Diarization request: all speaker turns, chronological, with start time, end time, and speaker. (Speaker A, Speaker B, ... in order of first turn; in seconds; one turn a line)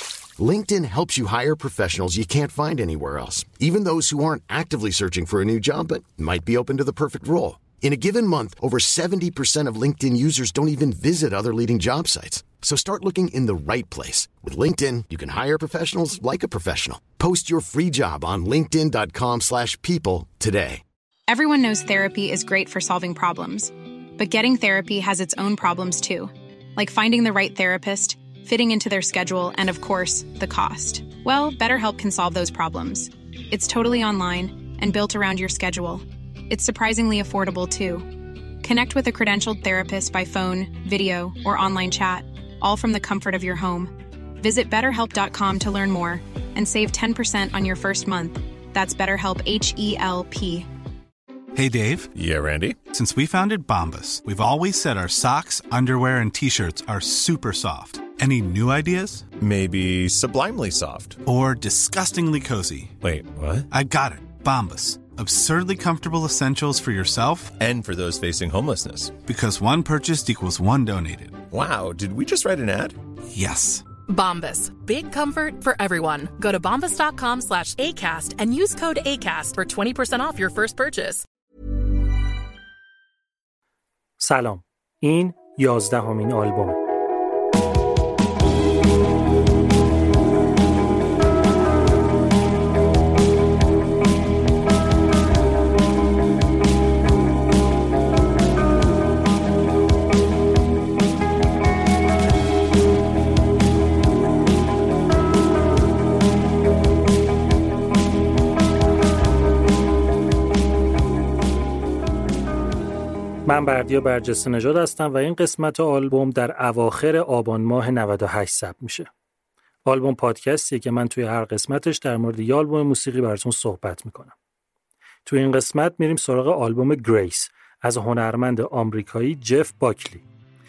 Speaker A: 0.4-20.8
Speaker B: 21.3-38.0
Speaker B: 38.6-50.7
Speaker C: 51.5-52.1
Speaker D: 52.1-52.8
Speaker C: 52.9-59.3
Speaker D: 59.4-61.2
Speaker C: 61.2-63.0
Speaker D: 63.0-63.7
Speaker C: 63.7-67.5
Speaker D: 67.5-69.1
Speaker C: 69.2-71.4
Speaker D: 71.5-73.0
Speaker C: 73.3-73.8
Speaker E: 74.1-81.2
Speaker F: 84.2-86.8
Speaker F: 113.4-119.1
Speaker F: 119.8-124.3
Speaker F: 125.2-130.2